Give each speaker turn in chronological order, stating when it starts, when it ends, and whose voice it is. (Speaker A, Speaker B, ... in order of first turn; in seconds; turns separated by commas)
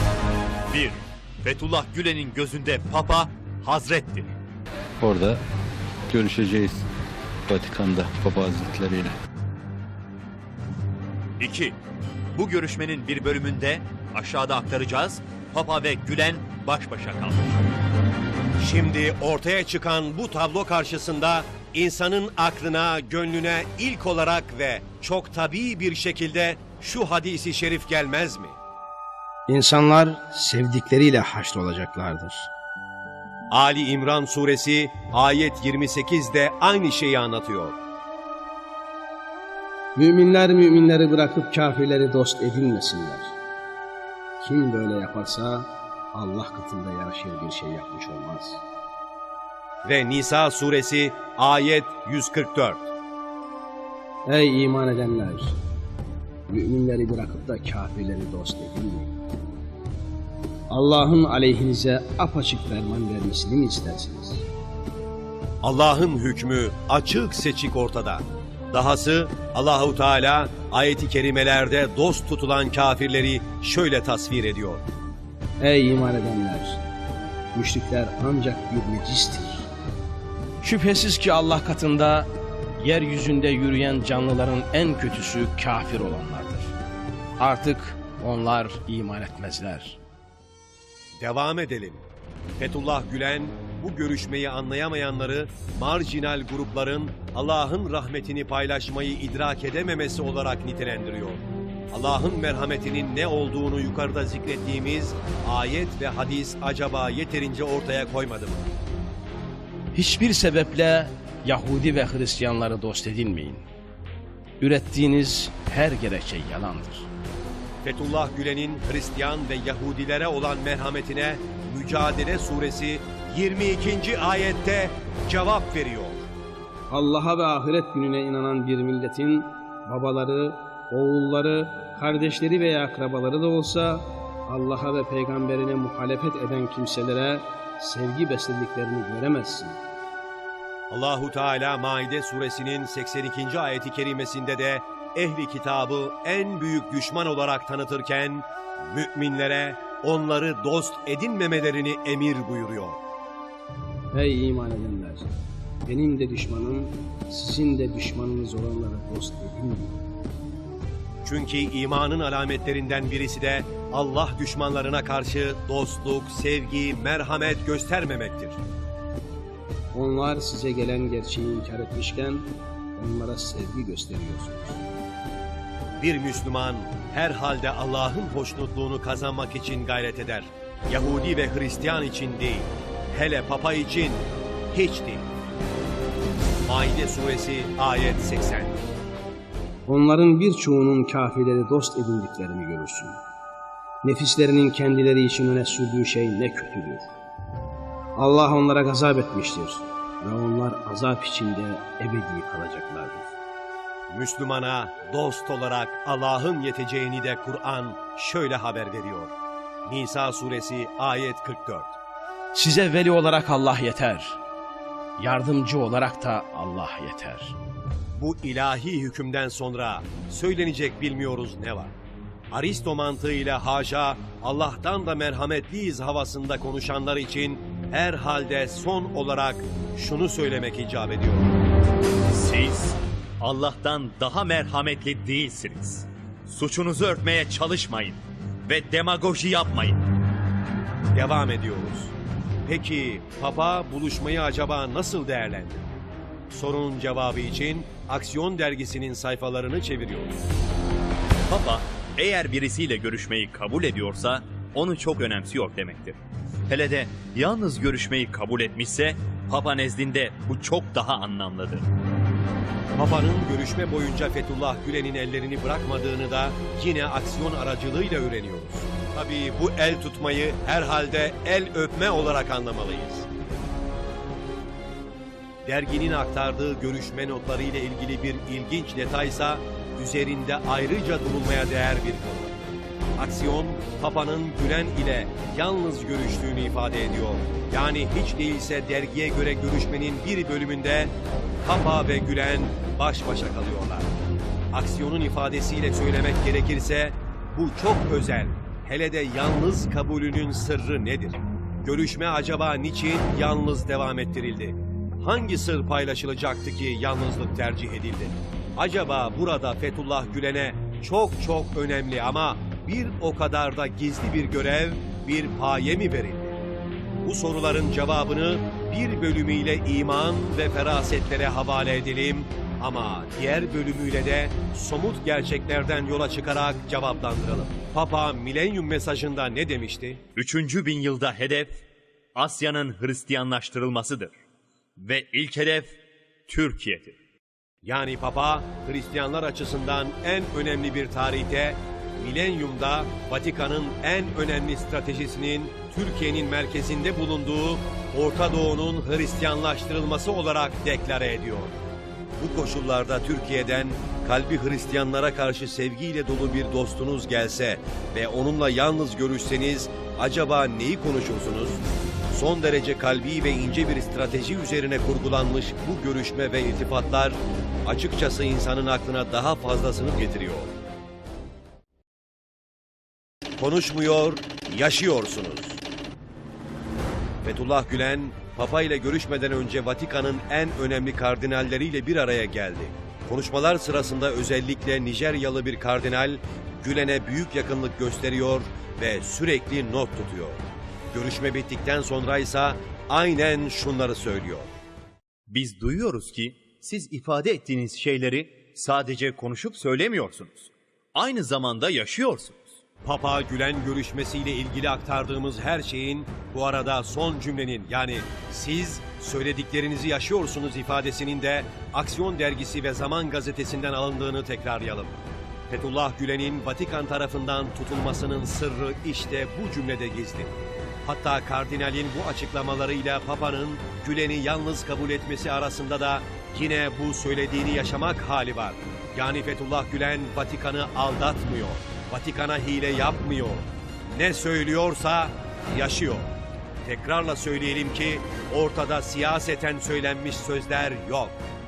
Speaker A: 0.7-4.3, Speaker B: 5.0-5.4, Speaker B: 6.1-6.8, Speaker B: 7.5-9.1, Speaker A: 11.4-11.8, Speaker A: 12.3-17.6, Speaker C: 18.6-28.6, Speaker D: 29.5-32.5, Speaker C: 33.5-37.8, Speaker D: 40.0-43.3, Speaker D: 44.4-48.6, Speaker C: 49.8-52.9, Speaker D: 54.3-55.6, Speaker D: 56.5-59.1, Speaker D: 60.7-64.5, Speaker C: 65.6-74.9, Speaker D: 75.6-76.8, Speaker D: 77.5-79.7, Speaker D: 80.6-82.3, Speaker D: 82.8-86.7, Speaker D: 87.4-90.0, Speaker C: 91.2-92.0, Speaker C: 92.6-108.7, Speaker D: 109.9-113.6, Speaker D: 114.6-117.1, Speaker C: 117.8-126.3, Speaker D: 126.9-139.8, Speaker C: 140.9-153.0, Speaker D: 154.1-155.3, Speaker D: 155.8-160.0, Speaker C: 161.2-168.6, Speaker D: 169.9-172.4, Speaker D: 173.0-174.8, Speaker C: 176.0-185.3, Speaker C: 186.7-188.8, Speaker D: 189.9-193.2, Speaker D: 194.0-197.1, Speaker D: 198.2-203.3, Speaker C: 204.1-209.3, Speaker C: 209.9-212.0, Speaker D: 212.5-214.4, Speaker D: 215.2-217.6, Speaker C: 218.2-221.9, Speaker C: 222.5-231.5, Speaker A: 232.3-240.0, Speaker C: 241.1-242.1, Speaker C: 242.7-245.9, Speaker C: 246.5-250.4, Speaker A: 251.5-261.9, Speaker C: 263.0-273.3, Speaker C: 275.6-282.6, Speaker C: 283.2-294.1, Speaker C: 294.7-316.6, Speaker C: 317.2-330.2, Speaker A: 330.4-331.8, Speaker A: 332.4-334.4, Speaker A: 335.0-337.2, Speaker C: 337.8-351.8, Speaker C: 352.4-370.8, Speaker C: 373.6-375.8, Speaker C: 377.4-394.7, Speaker A: 395.5-402.6, Speaker C: 403.0-415.1, Speaker C: 415.7-436.3, Speaker C: 436.9-441.4